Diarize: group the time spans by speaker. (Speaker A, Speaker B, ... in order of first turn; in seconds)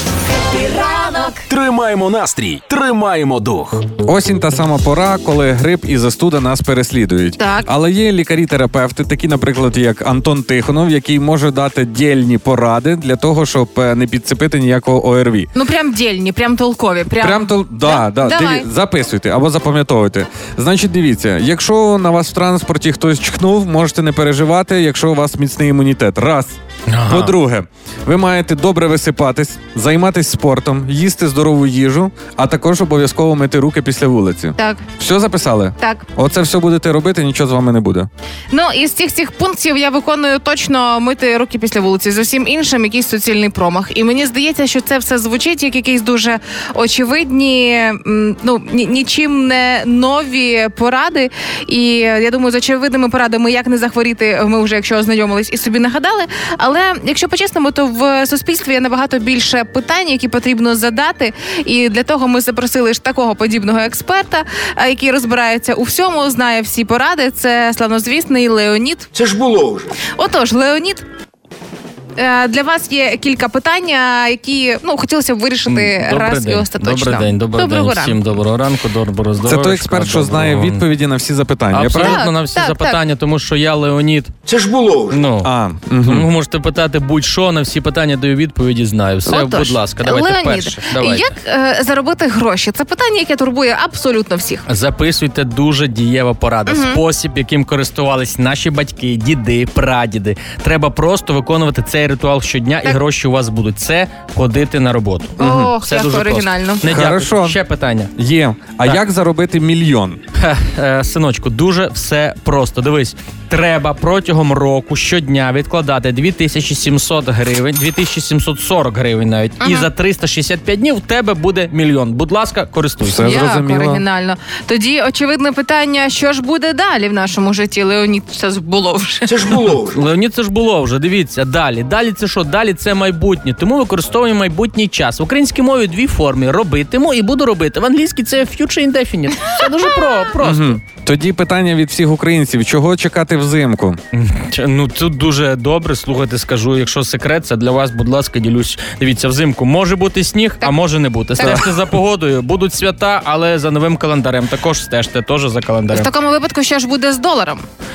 Speaker A: 0.5-1.4, 7.4-7.7, 15.5-18.7, 34.6-34.8, 35.8-36.0, 38.5-69.1, 70.0-71.0, 72.2-78.2, 81.9-83.0, 89.3-94.6, 96.7-97.0, 105.4-106.9, 119.6-119.9, 123.2-129.6, 151.3-151.6, 155.9-157.6
Speaker B: 1.5-3.9
Speaker C: 4.0-15.5, 17.2-38.1, 79.4-82.3, 85.4-86.3, 105.4-105.7, 106.8-107.6, 108.1-110.2, 123.0-124.0, 140.4-144.0
Speaker D: 26.9-27.3, 75.7-80.8, 81.7-84.3, 85.1-85.5, 86.0-91.3, 94.7-108.1, 110.3-123.3, 129.8-140.8, 144.1-156.1
Speaker E: 69.1-70.0, 84.5-85.2, 129.3-130.0